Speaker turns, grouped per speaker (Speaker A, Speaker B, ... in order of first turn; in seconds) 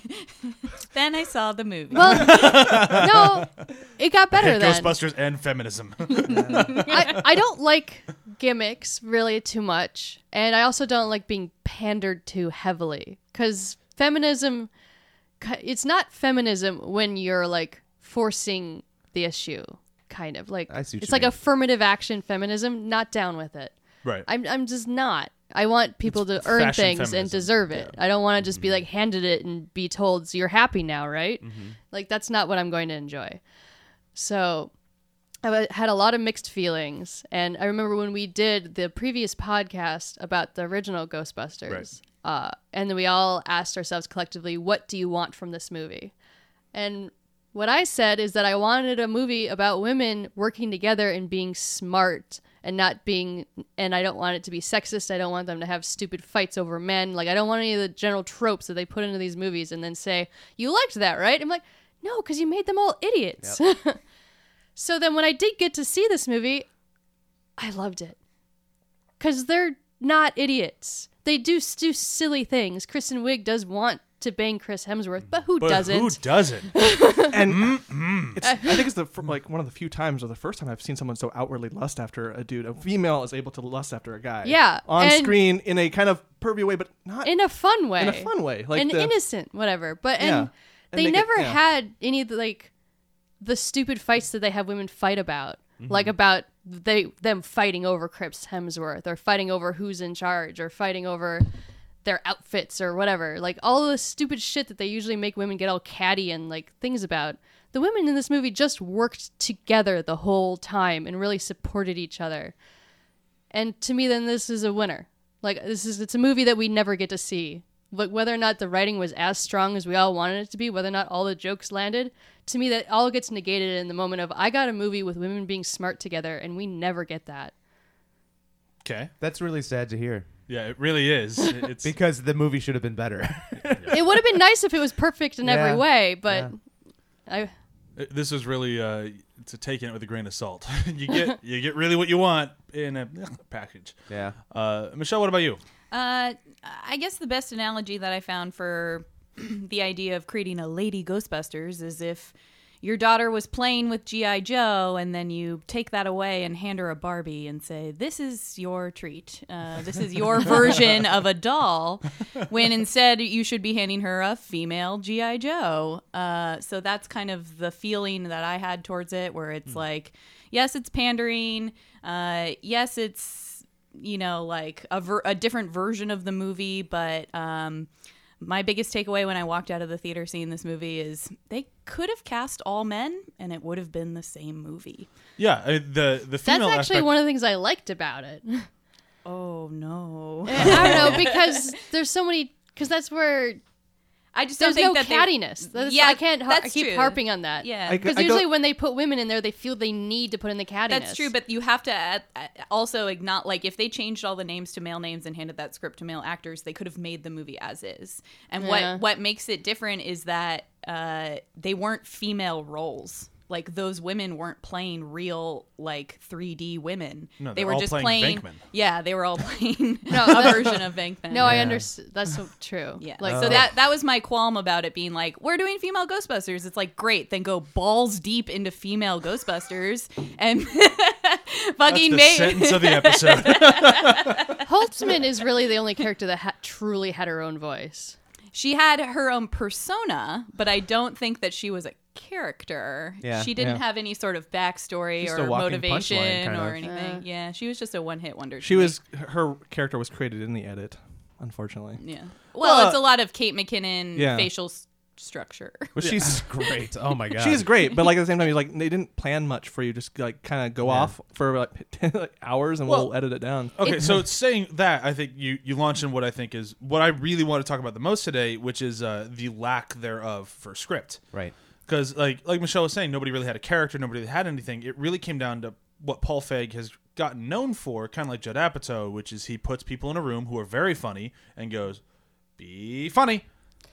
Speaker A: 0.8-2.4, 145.9-177.9, 178.4-185.1, 189.2-191.6, 194.3-198.1, 200.9-221.7, 223.0-234.6, 238.5-249.0, 252.0-256.7
Speaker B: 1.9-5.0, 6.3-14.7, 15.4-33.4, 34.1-34.7, 35.4-46.1, 46.7-64.0, 64.8-66.7, 67.6-68.2, 69.2-77.5, 78.4-78.9, 84.4-85.5, 87.2-92.7, 93.4-101.5, 102.0-112.5, 113.5-127.5, 133.9-136.6, 137.3-137.5, 186.4-188.7, 190.5-193.6, 194.6-201.3, 208.6-209.0, 220.1-223.7, 234.6-238.2, 246.8-247.2
Speaker C: 2.0-3.5, 4.3-7.3, 26.1-27.9, 75.6-76.7, 77.5-78.4, 128.8-129.1, 130.5-131.9, 133.6-134.1, 137.9-143.9, 144.5-145.6, 185.4-187.2, 217.4-218.6, 231.9-234.5, 262.9-263.1, 263.7-271.2, 271.9-282.0, 282.6-283.4
Speaker D: 20.7-21.4, 31.4-31.7, 129.2-130.3, 131.8-134.0, 135.4-136.5, 144.1-144.3, 221.4-221.9, 223.2-223.7, 243.2-243.5, 245.2-246.8, 255.9-257.7
Speaker E: 77.3-87.4, 88.0-89.1, 90.2-91.6, 197.8-198.5, 243.6-243.8, 248.6-252.0, 252.6-253.0, 254.1-254.5, 257.4-264.1